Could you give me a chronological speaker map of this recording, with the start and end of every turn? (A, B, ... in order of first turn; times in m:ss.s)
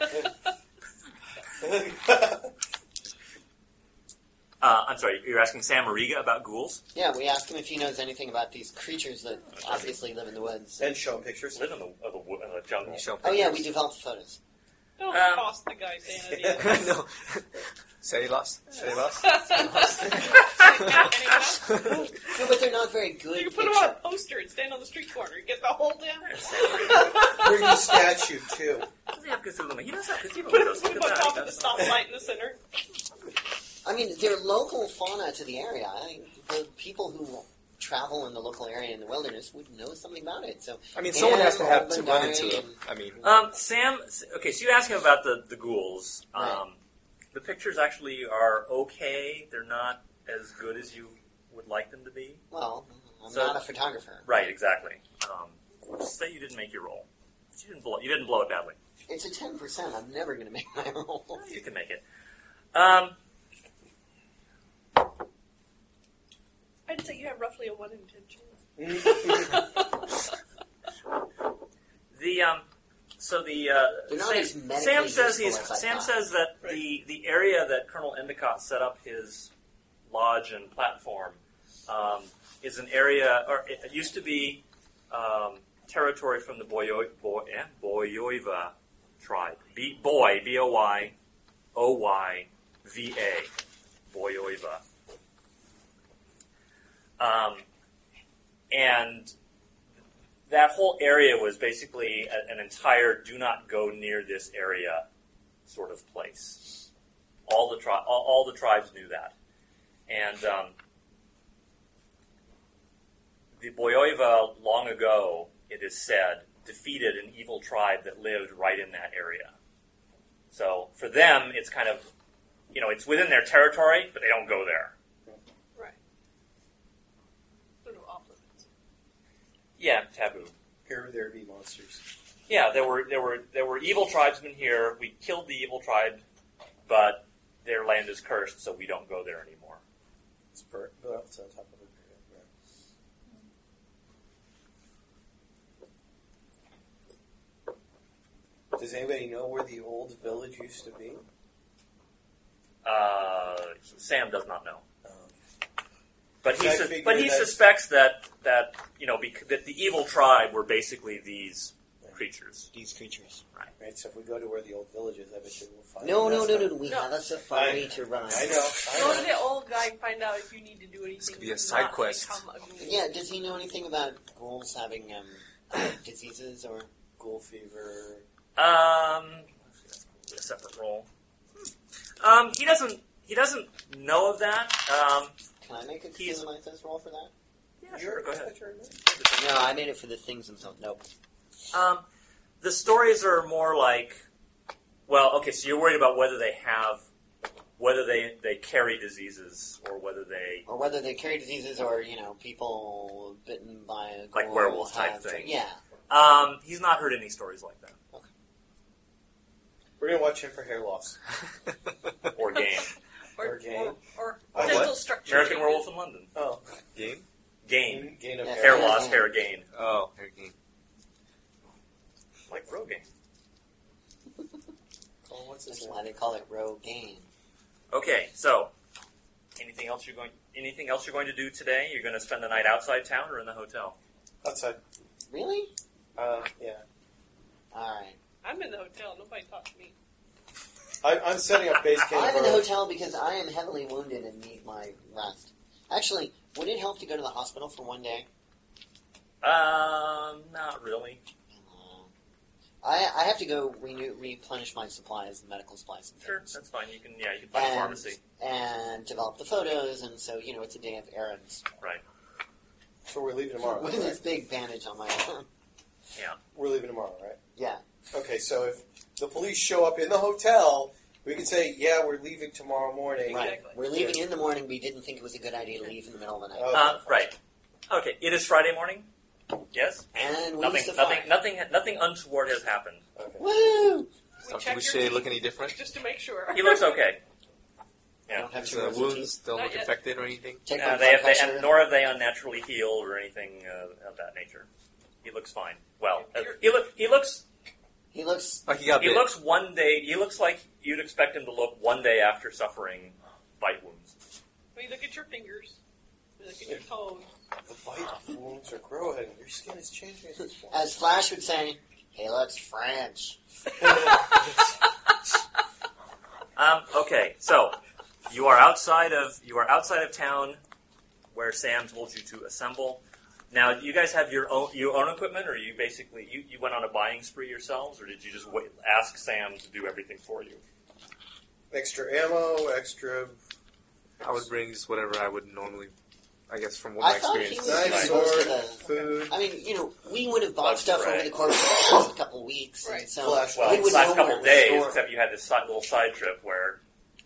0:01.6-0:02.5 A
0:04.6-0:06.8 B
0:06.9-0:11.0 C
0:09.4-0:10.0 B
0:10.8-0:11.6 A
0:11.5-0:13.4 B
0:12.8-0:13.7 D
0:13.2-0:14.4 C
0:15.0-0:16.9 E
0:15.1-0:15.5 B
0:16.3-0:16.9 A
0:16.6-0:22.1 D
0:19.1-0:22.3 E
0:20.0-0:20.3 A
0:22.3-0:24.0 C
0:23.3-0:28.3 E
0:26.2-0:27.3 B
0:27.3-0:28.9 A
0:29.1-0:32.0 B
0:30.3-0:32.6 E
0:33.8-0:42.8 C
0:40.9-0:43.3 D
0:43.2-0:46.8 B
0:46.3-0:46.6 C
0:47.3-0:52.4 B
0:52.5-0:54.3 C
0:53.3-0:53.6 B
0:54.2-0:58.8 B
0:59.1-1:01.4 C
1:01.3-1:02.0 B
1:02.7-1:03.2 B
1:06.9-1:10.3 E
1:08.8-1:09.6 A
1:12.1-1:12.6 B
1:13.2-1:19.5 B
1:14.1-1:16.1 C
1:20.1-1:31.1 B
1:31.7-1:33.5 B
1:34.1-1:34.8 B
1:37.2-1:37.6 B
1:38.7-1:39.3 B
1:40.5-1:45.0 B
1:45.6-1:46.8 B
1:47.5-1:49.3 B
1:50.1-1:50.7 B
1:53.6-1:59.5 B
2:00.5-2:02.1 B
2:02.7-2:04.9 B
2:07.8-2:08.6 E
2:09.8-2:10.5 B
2:10.8-2:12.0 A
2:12.5-2:16.2 B
2:16.9-2:19.8 B
2:20.5-2:22.5 A
2:28.7-2:31.2 A
2:32.8-2:34.8 B
2:35.0-2:35.3 A
2:36.4-2:42.7 B
2:36.4-2:37.6 A
2:42.7-2:43.4 C
2:43.8-2:46.8 A
2:46.0-2:49.2 C
2:46.8-2:47.1 E
2:47.5-2:49.4 A
2:48.8-2:53.0 E
2:51.2-2:52.4 D
2:52.8-2:56.9 C
2:57.2-2:58.2 A
2:58.6-3:01.1 B
3:02.2-3:05.3 B
3:05.6-3:07.3 C
3:06.2-3:06.4 B
3:07.8-3:08.5 B
3:07.9-3:09.0 A
3:09.0-3:09.7 B
3:09.3-3:11.0 C
3:11.7-3:12.0 B
3:12.6-3:14.2 B
3:15.1-3:17.0 B
3:17.8-3:20.6 B
3:20.7-3:25.8 C
3:24.3-3:28.0 B
3:30.0-3:31.2 A
3:32.3-3:32.9 B
3:33.3-3:35.9 E
3:33.4-3:34.0 A
3:34.5-3:35.0 A
3:34.6-3:36.3 B
3:36.3-3:36.6 A
3:36.9-3:37.2 D
3:37.6-3:39.7 B
3:37.9-3:39.0 A
3:38.4-3:39.3 C
3:39.7-3:40.5 D
3:42.5-3:43.1 B
3:45.2-3:46.0 A
3:45.7-3:47.3 C
3:47.9-3:48.7 B
3:49.6-3:54.0 B
3:54.4-3:54.8 A
3:55.3-3:55.7 C
3:56.2-3:56.8 A
3:57.7-3:58.2 C
3:58.4-3:59.9 E
4:01.0-4:02.7 A
4:02.1-4:08.3 C
4:09.4-4:11.2 B
4:11.5-4:12.1 C
4:12.8-4:16.5 C
4:16.2-4:18.2 B
4:17.5-4:21.6 C
4:23.0-4:24.2 A
4:23.6-4:25.5 C
4:26.5-4:27.4 A
4:27.6-4:27.8 C
4:28.1-4:34.2 A
4:33.3-4:33.8 E
4:33.3-4:36.9 C
4:36.5-4:37.3 A
4:36.7-4:37.4 B
4:37.9-4:39.1 B
4:39.7-4:40.1 B
4:40.1-4:41.3 C
4:40.6-4:43.0 B
4:43.2-4:43.4 A
4:43.4-4:44.1 C
4:44.4-4:47.1 E
4:44.4-4:45.8 D
4:46.5-4:47.2 B
4:48.3-4:49.4 C
4:48.5-4:50.6 D
4:49.5-4:49.9 E
4:50.6-4:51.8 C
4:50.8-4:54.7 B
4:55.2-4:57.4 B
4:56.2-4:56.6 E
4:58.1-4:58.6 C
4:58.7-4:59.3 D
4:59.0-5:04.1 B
5:04.7-5:05.8 E
5:06.4-5:07.3 E
5:07.7-5:10.8 A
5:10.7-5:13.4 C
5:13.8-5:14.3 A
5:16.6-5:17.8 B
5:18.3-5:20.6 B
5:21.3-5:30.6 B
5:31.7-5:33.4 A
5:34.2-5:35.9 D
5:36.5-5:38.1 D
5:37.0-5:45.0 C
5:37.6-5:39.3 A
5:37.8-5:38.1 B
5:40.6-5:41.3 B
5:42.8-5:43.1 E
5:43.2-5:44.9 A
5:43.5-5:46.8 B